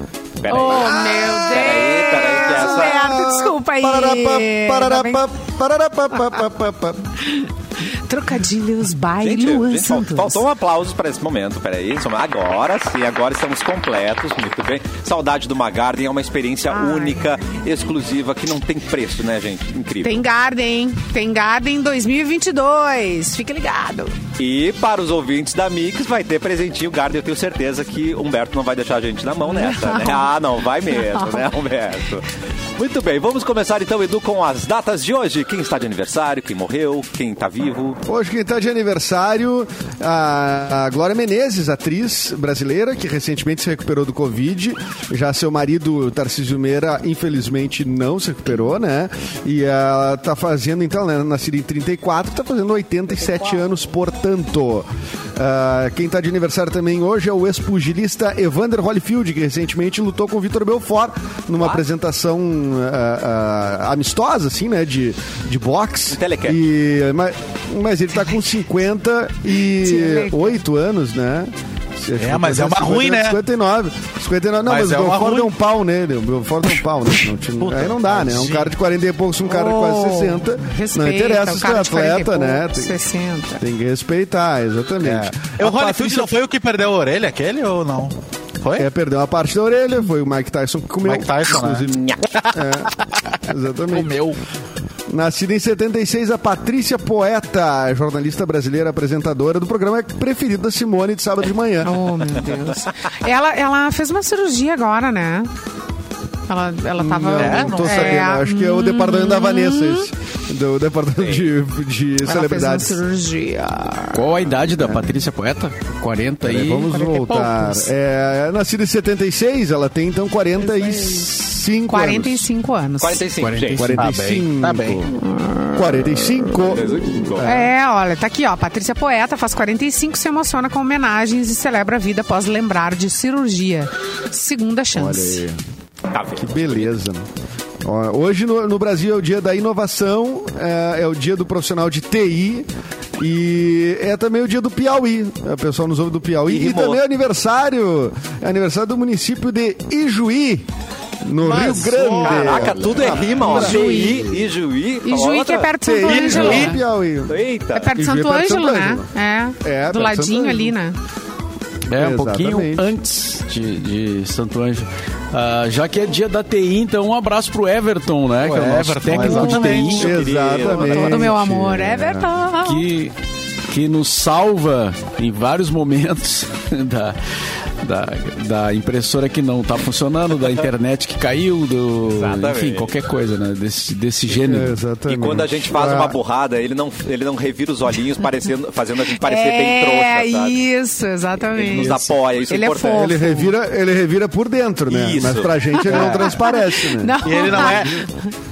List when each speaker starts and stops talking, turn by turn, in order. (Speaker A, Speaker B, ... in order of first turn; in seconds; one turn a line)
Speaker A: 0.4-3.1
Speaker B: 0.5-5.2
Speaker C: 0.7-1.6
Speaker C: 2.4-7.2
Speaker B: 7.2-10.4
Speaker A: 9.2-20.2
Speaker B: 16.7-17.2
Speaker B: 20.0-24.1
Speaker A: 24.4-38.0
Speaker B: 29.5-30.3
Speaker B: 30.9-31.5
Speaker C: 38.0-82.9
Speaker A: 66.1-66.6
Speaker B: 69.8-70.6
Speaker D: 72.2-73.4
Speaker D: 74.7-75.5
Speaker D: 77.6-78.7
Speaker B: 79.4-83.6
Speaker C: 83.6-86.3
Speaker D: 85.0-88.8
Speaker C: 88.8-94.2
Speaker D: 91.0-93.3
Speaker A: 91.9-92.3
Speaker D: 93.9-94.3
Speaker C: 95.1-102.1
Speaker B: 101.8-105.5
Speaker B: 106.5-110.1
Speaker C: 107.0-113.0
Speaker D: 107.3-108.2
Speaker A: 111.2-111.5
Speaker B: 112.2-114.3
Speaker E: 114.1-116.9
Speaker C: 114.8-115.2
Speaker C: 116.4-122.5
Speaker B: 116.9-117.9
Speaker B: 120.6-121.3
Speaker B: 121.9-123.2
Speaker A: 123.0-123.8
Speaker E: 123.4-124.2
Speaker C: 123.7-125.1
Speaker D: 124.0-125.0
Speaker B: 125.1-126.7
Speaker C: 125.7-127.7
Speaker A: 126.5-127.7
Speaker B: 127.4-135.4
Speaker C: 134.9-135.6
Speaker A: 136.1-136.9
Speaker C: 136.4-137.2
Speaker C: 137.8-150.7
Speaker A: 146.5-147.0
Speaker C: 151.2-154.1
Speaker D: 151.4-153.6
Speaker A: 152.2-155.7
Speaker B: 153.5-154.4
Speaker B: 155.0-156.8
Speaker C: 155.8-157.4
Speaker D: 156.0-156.8
Speaker A: 157.3-157.9
Speaker B: 157.7-161.0
Speaker C: 157.9-160.7
Speaker E: 161.9-170.1
Speaker C: 161.9-162.8
Speaker D: 168.4-170.0
Speaker B: 169.2-172.8
Speaker C: 169.9-172.3
Speaker A: 170.0-171.3
Speaker E: 172.6-173.1
Speaker E: 173.7-177.2
Speaker E: 177.8-184.8
Speaker A: 182.1-182.9
Speaker C: 184.3-186.2
Speaker A: 185.1-190.6
Speaker B: 189.2-193.5
Speaker A: 191.5-193.2
Speaker C: 192.9-198.0
Speaker A: 194.9-196.3
Speaker B: 195.8-198.1
Speaker D: 197.2-198.0